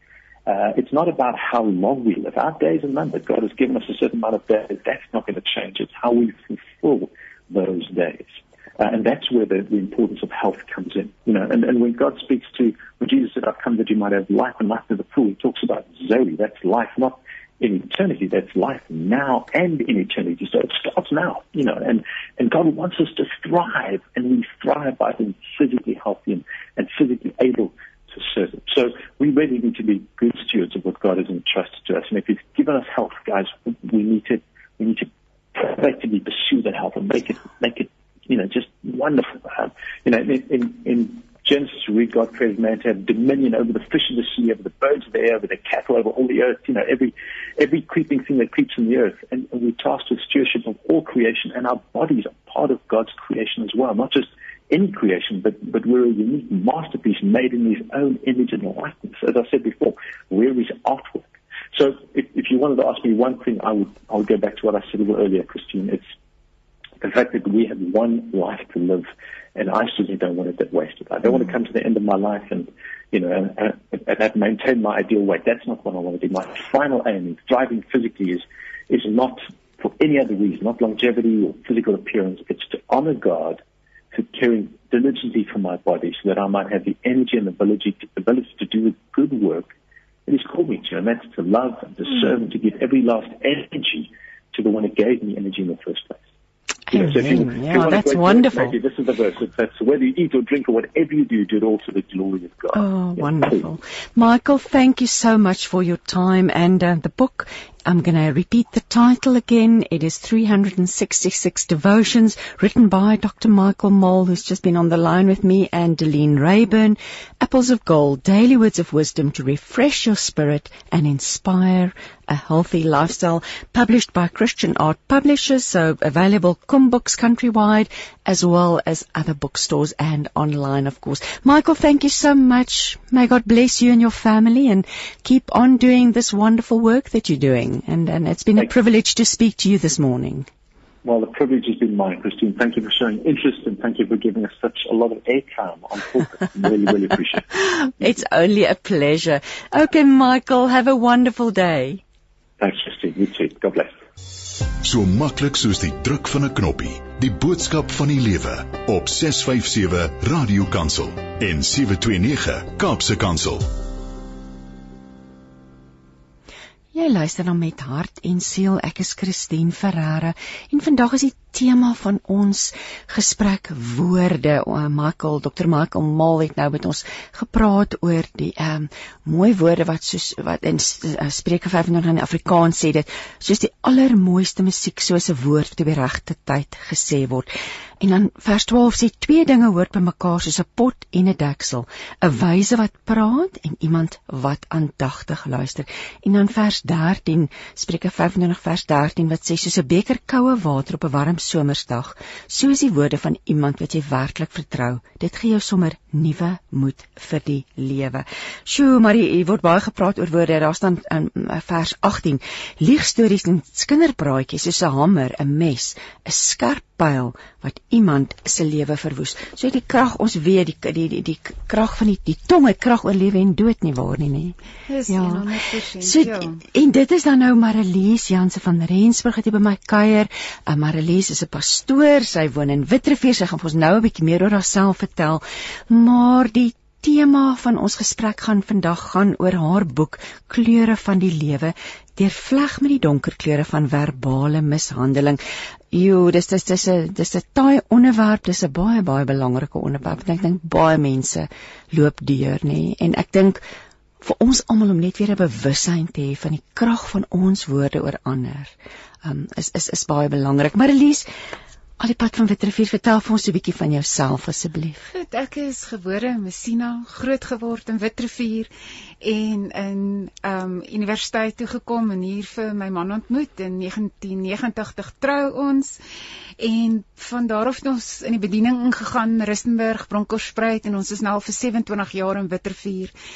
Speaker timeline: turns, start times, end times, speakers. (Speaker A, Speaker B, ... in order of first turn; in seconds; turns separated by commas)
Speaker A: 0.5-66.0, Speaker A: 67.0-89.7, Speaker A: 90.3-96.2, Speaker B: 96.9-98.8, Speaker A: 96.9-103.6, Speaker B: 102.7-140.5, Speaker A: 141.0-147.5, Speaker B: 147.8-152.0, Speaker A: 152.6-154.0, Speaker C: 154.8-163.7, Speaker B: 166.9-224.6, Speaker D: 224.9-226.6, Speaker B: 225.1-225.4, Speaker B: 226.0-245.4, Speaker B: 245.9-253.6, Speaker B: 254.2-258.7, Speaker B: 259.2-261.3, Speaker B: 262.0-265.1, Speaker D: 265.1-268.7, Speaker D: 269.2-276.0, Speaker D: 276.6-283.1